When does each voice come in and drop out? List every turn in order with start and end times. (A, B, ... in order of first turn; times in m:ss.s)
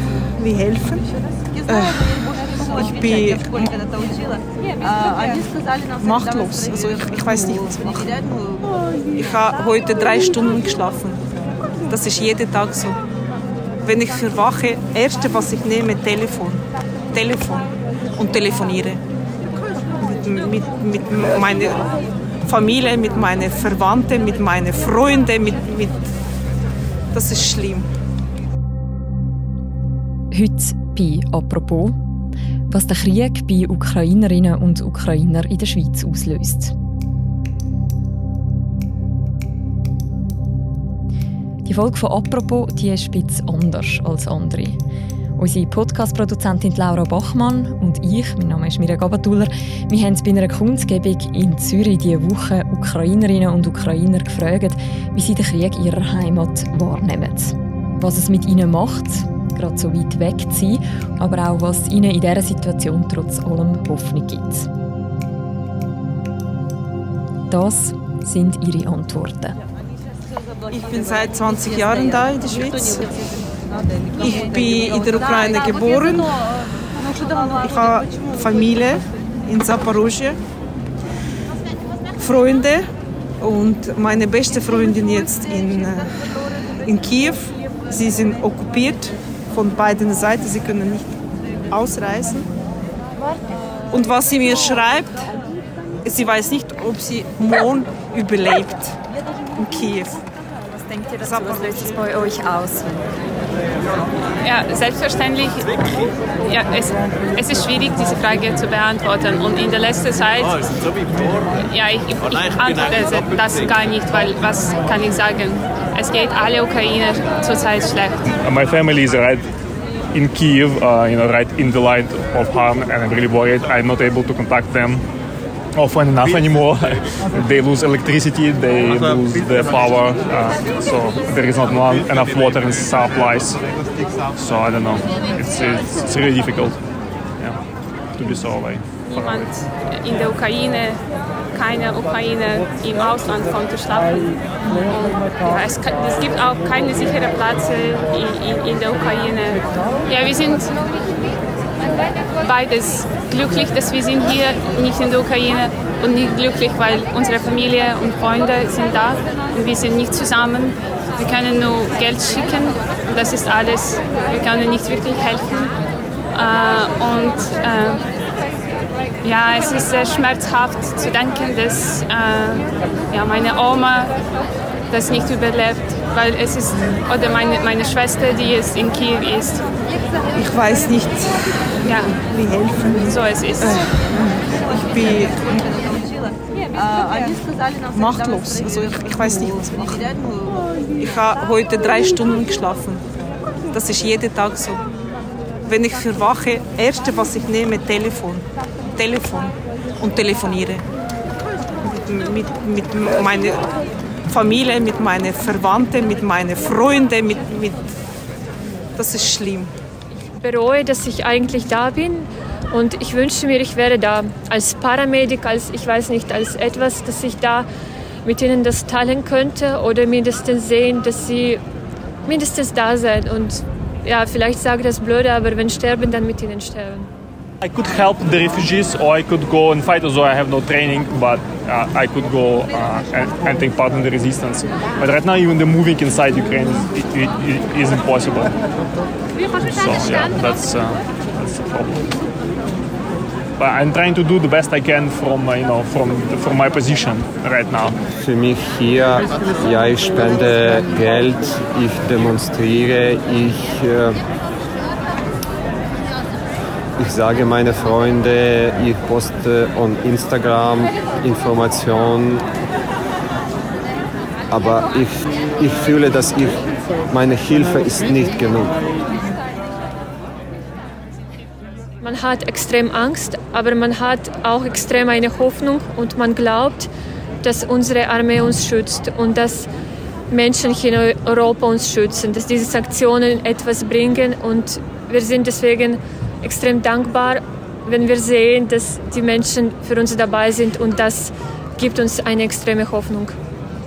0:00.4-0:01.1 A
0:01.6-0:03.9 A
0:06.0-0:08.3 A
0:09.1-0:11.2 A
0:11.9-0:13.0 A
0:13.8-0:19.0 A
0:20.0-0:21.8 A
0:22.4-0:26.1 A
0:27.1-0:27.9 A
0:30.3-0:32.0 B
0:32.7-0:36.7 B
0:41.6-0:44.8 B
0:45.4-1:04.7 B
1:07.5-1:09.6 B
1:10.7-1:13.2 A
1:14.2-1:16.4 A
1:17.6-1:20.4 A
1:22.2-1:22.8 A
1:23.4-1:26.2 A
1:26.7-1:31.1 A
1:31.7-1:32.5 A
1:33.9-1:35.3 A
1:36.0-1:38.9 A
1:39.6-1:40.2 A
1:40.7-1:43.1 B
1:41.2-1:41.8 A
1:44.4-1:50.6 C
1:51.4-1:58.2 C
1:58.4-1:59.4 D
2:00.1-2:05.0 D
2:05.7-2:13.6 D
2:14.3-2:16.8 D
2:18.2-2:19.4 D
2:19.0-2:30.7 C
2:32.4-2:45.7 C
2:46.3-2:48.0 C
2:49.2-2:54.1 C
2:54.9-2:59.6 C
3:00.3-3:01.5 A
3:01.8-3:02.1 C
3:02.2-3:06.0 A
3:03.1-3:03.8 C
3:07.9-3:10.1 A
3:11.0-3:13.0 A
3:13.7-3:14.8 A
3:15.6-3:20.8 A
3:21.8-3:23.7 A
3:24.3-3:27.8 A
3:29.0-3:29.7 A
3:30.3-3:37.6 E
3:38.2-3:41.6 E
3:42.2-3:47.1 E
3:47.6-3:58.6 D
3:59.6-4:02.0 D
4:03.6-4:08.0 D
4:08.2-4:14.2 F
4:17.0-4:22.4 F
4:24.5-4:28.8 F
4:32.0-4:36.9 E
4:37.4-4:39.7 E
4:40.3-4:53.3 E